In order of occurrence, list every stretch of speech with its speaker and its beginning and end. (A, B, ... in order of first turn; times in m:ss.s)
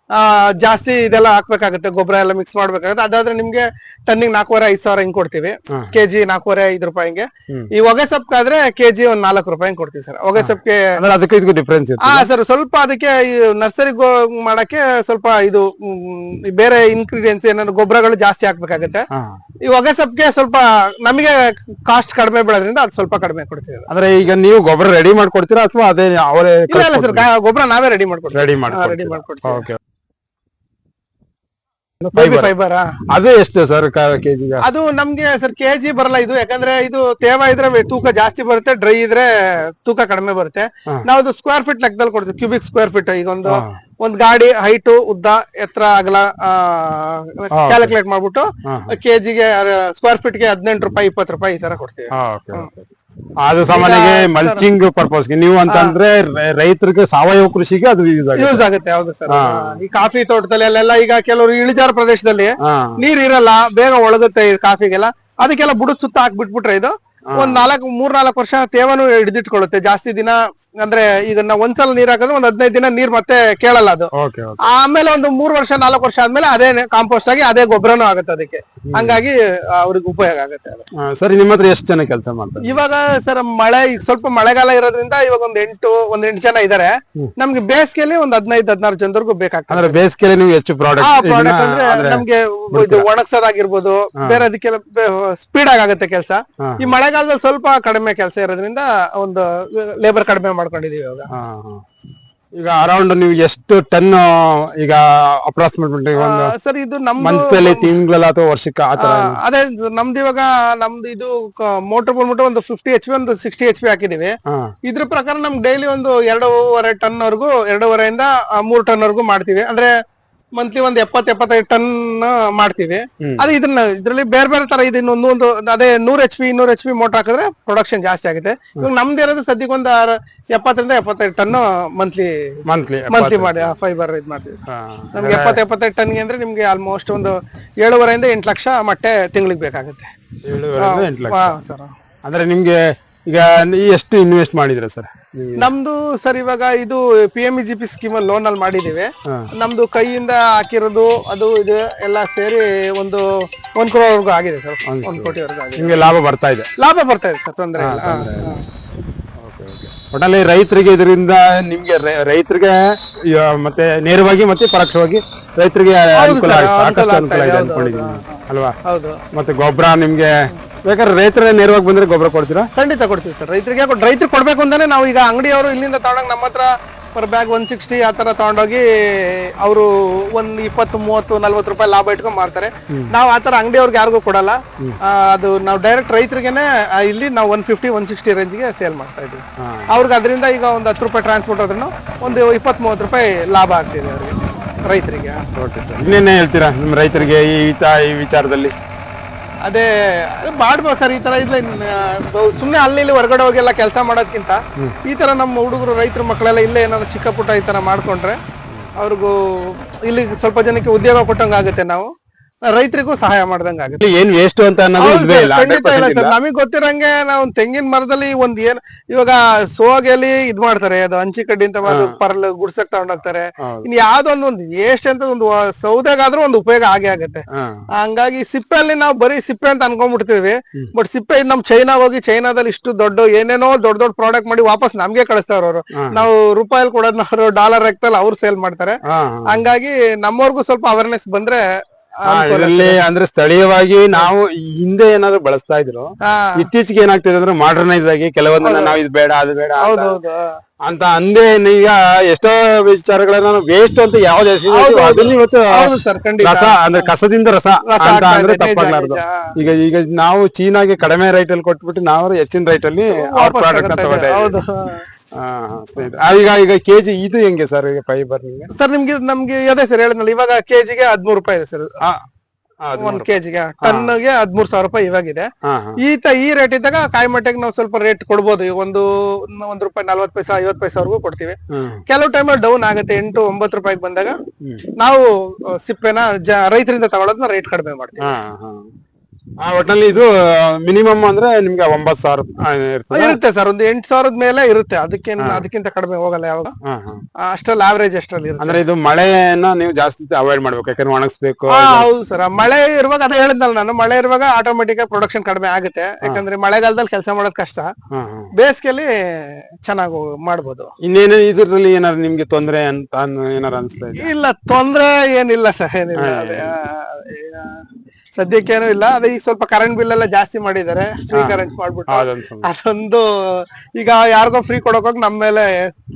0:00.2-0:10.9 A
0:10.4-0:12.3 B
0:12.0-0:19.1 A
0:19.1-0:19.4 B
0:19.6-0:23.9 A
0:23.9-0:27.3 B
0:26.7-0:29.7 A
0:28.3-0:29.8 B
0:32.0-0:32.5 B
0:32.1-0:32.9 A
0:33.1-0:34.6 B
0:34.6-0:52.7 A
0:43.5-0:43.8 B
0:47.5-0:47.9 B
0:48.6-0:49.0 B
0:52.1-0:52.9 B
0:53.4-0:58.6 B
0:53.7-0:54.6 A
0:58.4-1:14.1 A
0:59.3-0:59.7 B
1:02.6-1:03.0 B
1:07.3-1:07.7 B
1:14.2-1:14.6 B
1:14.7-1:20.9 A
1:18.9-1:19.2 B
1:21.0-1:22.8 B
1:22.6-1:30.0 A
1:29.7-1:33.1 B
1:31.0-1:41.3 A
1:36.6-1:36.9 B
1:41.3-1:41.8 B
1:42.6-1:46.5 B
1:46.2-1:47.9 A
1:47.2-1:49.4 B
1:49.0-1:59.9 A
2:00.6-2:12.3 A
2:12.7-2:13.8 B
2:13.1-2:14.6 A
2:14.7-2:15.6 B
2:15.2-2:20.1 A
2:20.4-2:21.5 B
2:20.8-2:21.9 A
2:22.2-2:25.7 B
2:25.6-2:33.2 A
2:33.8-2:36.1 A
2:34.9-2:36.7 B
2:36.8-2:38.6 A
2:37.8-2:38.6 B
2:39.4-2:48.8 B
2:46.2-2:49.2 A
2:49.3-2:50.3 B
2:50.8-2:52.7 B
2:52.8-3:15.4 A
3:09.6-3:09.9 B
3:15.6-3:18.7 B
3:19.7-3:28.4 A
3:29.0-3:32.1 A
3:32.7-3:34.0 A
3:34.0-3:36.4 B
3:35.0-3:47.4 A
3:41.9-3:42.2 B
3:43.6-3:43.9 B
3:47.5-3:47.8 B
3:48.0-4:01.6 A
3:56.0-3:56.2 B
3:59.0-3:59.5 B
4:02.2-4:03.0 A
4:02.3-4:10.2 B
4:06.2-4:06.7 A
4:08.6-4:09.0 A
4:09.8-4:10.6 A
4:10.8-4:15.9 B
4:14.7-4:16.8 A
4:16.4-4:24.6 B
4:17.9-4:19.5 A
4:23.2-4:25.0 A
4:25.4-4:28.7 B
4:28.7-4:32.0 A
4:32.8-4:33.3 B
4:33.0-4:44.4 A
4:33.8-4:34.1 B
4:35.6-4:36.0 B
4:41.7-4:42.0 B
4:45.0-4:48.3 A
4:48.2-4:48.8 B
4:49.6-4:53.4 B
4:53.1-4:56.8 A
4:55.4-4:55.7 B
4:56.8-4:57.2 B
4:57.4-4:58.8 A
4:58.6-5:02.1 B
5:01.7-5:07.9 A
5:08.1-5:08.5 B
5:08.6-5:10.9 A
5:11.0-5:14.3 B
5:14.2-5:17.8 A
5:16.2-5:16.7 B
5:18.4-5:25.9 A
5:21.3-5:22.7 B